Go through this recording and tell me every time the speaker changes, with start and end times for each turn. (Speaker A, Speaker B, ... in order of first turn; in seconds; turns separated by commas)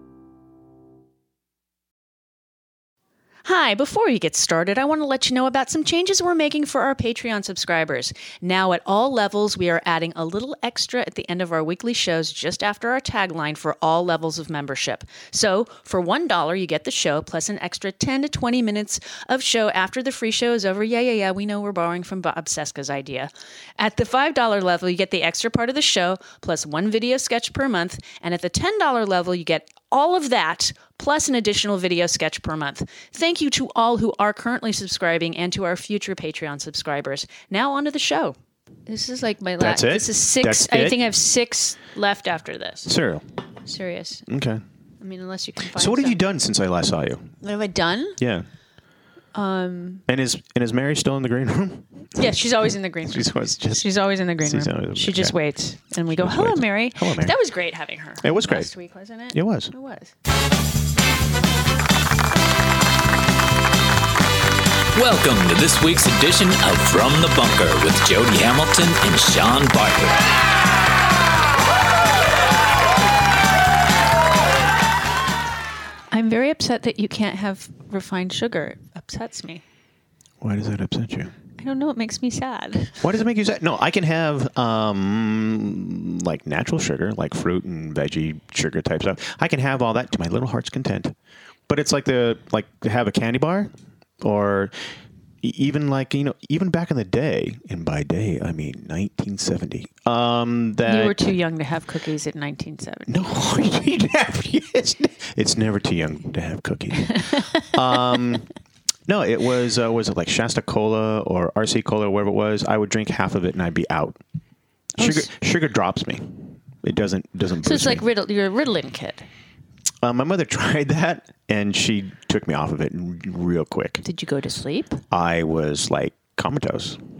Speaker A: 3.5-38.4, Speaker A: 38.9-43.0, Speaker B: 39.6-41.0, Speaker B: 42.9-43.2, Speaker A: 43.6-44.3, Speaker B: 44.3-44.6, Speaker A: 45.0-46.2, Speaker B: 45.8-47.3, Speaker A: 47.4-48.2, Speaker B: 48.2-48.5, Speaker A: 49.4-50.0, Speaker B: 50.1-52.2, Speaker A: 52.2-60.1, Speaker B: 53.1-53.8, Speaker B: 54.4-55.4, Speaker B: 56.1-57.4, Speaker B: 58.2-58.7, Speaker B: 59.3-59.7, Speaker C: 65.0-70.2, Speaker A: 76.1-79.6, Speaker B: 80.4-81.3, Speaker A: 81.6-83.0, Speaker B: 83.0-91.2, Speaker B: 91.7-94.7, Speaker B: 95.4-101.4, Speaker A: 100.9-103.2, Speaker B: 103.1-108.5, Speaker A: 107.0-107.8, Speaker B: 109.1-114.2, Speaker A: 115.0-115.3, Speaker B: 115.0-118.0, Speaker A: 117.6-119.3, Speaker B: 120.0-124.0, Speaker A: 124.0-125.0, Speaker B: 125.1-127.0